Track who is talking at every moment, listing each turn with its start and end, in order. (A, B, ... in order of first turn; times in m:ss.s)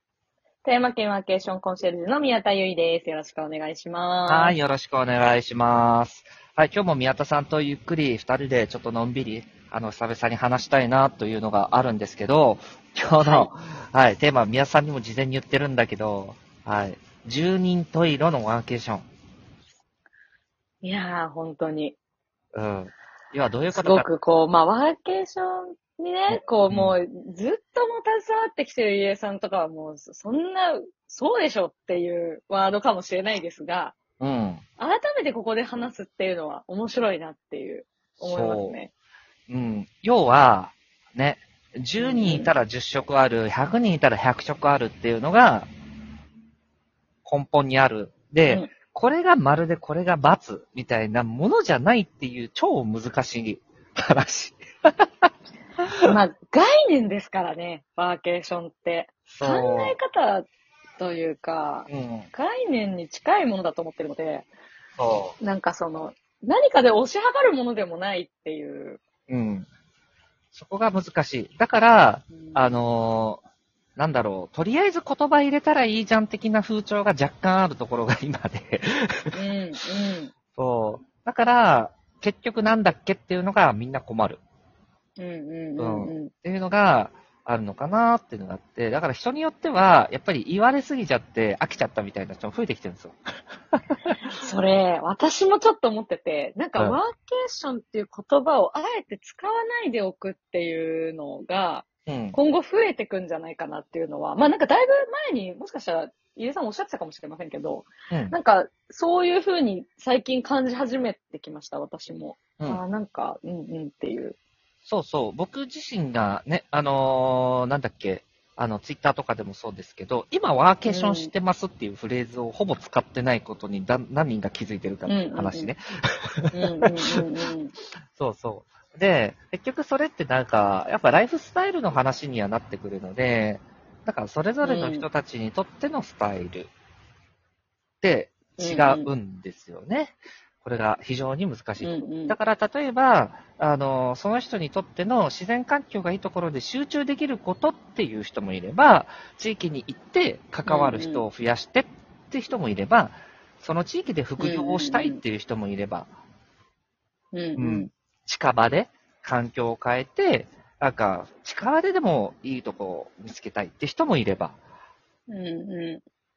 0:00.6-0:04.6 A
0:04.3-0:19.0 B
0:13.2-0:13.5 A
0:20.8-0:22.0 A
0:22.5-0:24.1 B
0:23.7-0:34.0 A
0:26.7-0:26.9 B
0:34.2-0:34.6 B
0:34.8-0:38.9 A
0:38.2-0:38.8 B
0:39.5-0:45.7 B
0:42.0-0:42.5 A
0:47.2-0:55.3 B
0:48.4-0:48.7 A
0:56.0-1:00.4 A
0:59.3-1:00.0 B
1:01.0-1:04.5 A
1:01.9-1:02.3 B
1:05.0-1:05.4 B
1:05.4-1:09.0 A
1:09.3-1:09.7 B
1:10.5-1:13.4 B
1:12.3-1:12.8 A
1:14.0-1:19.4 B
1:19.3-1:20.3 A
1:20.5-1:24.4 B
1:25.2-1:26.3 A
1:25.8-1:33.2 B
1:33.7-1:34.2 B
1:34.3-1:54.4 A
1:42.1-1:42.4 B
1:48.1-1:48.4 B
1:54.8-2:06.6 B
2:00.8-2:01.3 A
2:05.0-2:05.7 A
2:06.5-2:07.7 A
2:08.1-2:16.7 B
2:14.6-2:15.0 A
2:18.0-2:36.1 B
2:18.6-2:19.1 A
2:21.8-2:22.4 A
2:30.7-2:31.2 A
2:34.4-2:35.2 A
2:37.3-2:37.9 A
2:37.6-2:44.6 B
2:45.3-2:46.0 A